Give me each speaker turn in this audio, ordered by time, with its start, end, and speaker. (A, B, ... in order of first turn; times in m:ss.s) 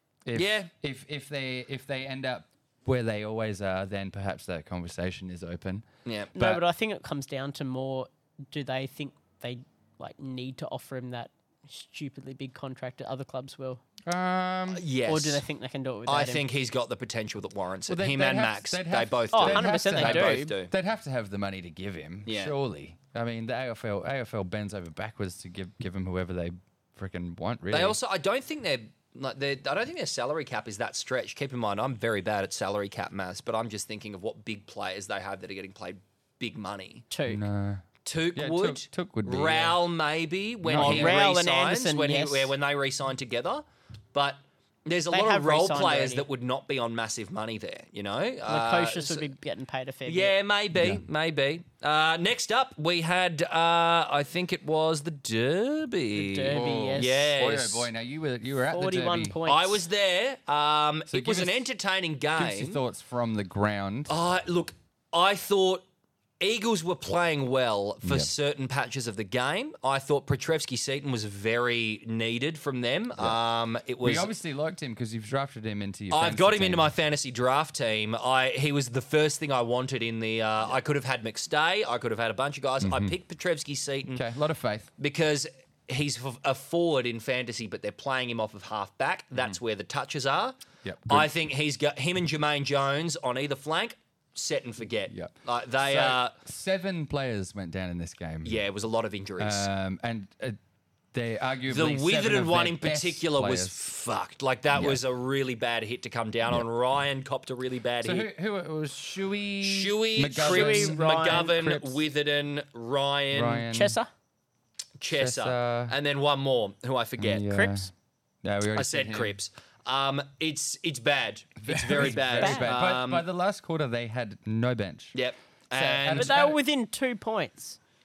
0:00.2-0:05.8 A
0:00.3-0:00.7 B
0:06.0-0:06.4 B
0:06.3-0:13.8 C
0:06.4-0:06.6 A
0:14.0-0:14.8 A
0:14.7-0:15.4 B
0:15.1-0:16.4 C
0:16.1-0:20.7 B
0:17.9-0:28.0 A
0:19.3-0:20.5 C
0:22.2-0:22.5 B
0:27.7-0:37.0 B
0:37.1-0:37.4 C
0:37.3-0:39.8 A
0:38.0-0:49.2 B
0:40.6-0:41.2 A
0:40.8-0:42.5 C
0:45.1-0:46.2 C
0:48.4-0:50.3 C
0:50.0-0:57.9 B
0:50.7-0:51.0 A
0:56.1-0:57.3 C
0:56.5-0:59.4 A
0:58.7-0:59.8 C
0:59.4-1:02.8 B
1:01.1-1:01.7 A
1:02.4-1:04.1 A
1:04.1-1:05.8 B
1:06.4-1:14.3 B
1:08.0-1:08.3 A
1:14.0-1:16.9 A
1:16.1-1:24.2 B
1:22.8-1:23.2 A
1:24.1-1:24.9 A
1:25.0-1:30.6 B
1:30.8-1:31.3 A
1:31.1-1:36.3 B
1:35.1-1:38.6 A
1:38.4-1:39.7 B
1:39.4-1:40.6 A
1:41.1-1:43.8 A
1:41.7-1:48.3 B
1:44.7-1:45.0 A
1:48.0-1:52.0 A
1:49.6-1:53.6 B
1:50.4-1:51.5 C
1:53.3-1:54.0 A
1:53.7-1:54.1 C
1:55.0-1:57.5 B
1:55.1-1:55.9 A
1:57.2-1:57.9 A
1:57.5-1:57.9 C
1:58.4-1:59.3 A
1:58.7-2:03.2 B
2:01.6-2:05.2 A
2:02.0-2:02.7 C
2:05.1-2:06.4 B
2:05.7-2:06.6 A
2:06.1-2:07.8 C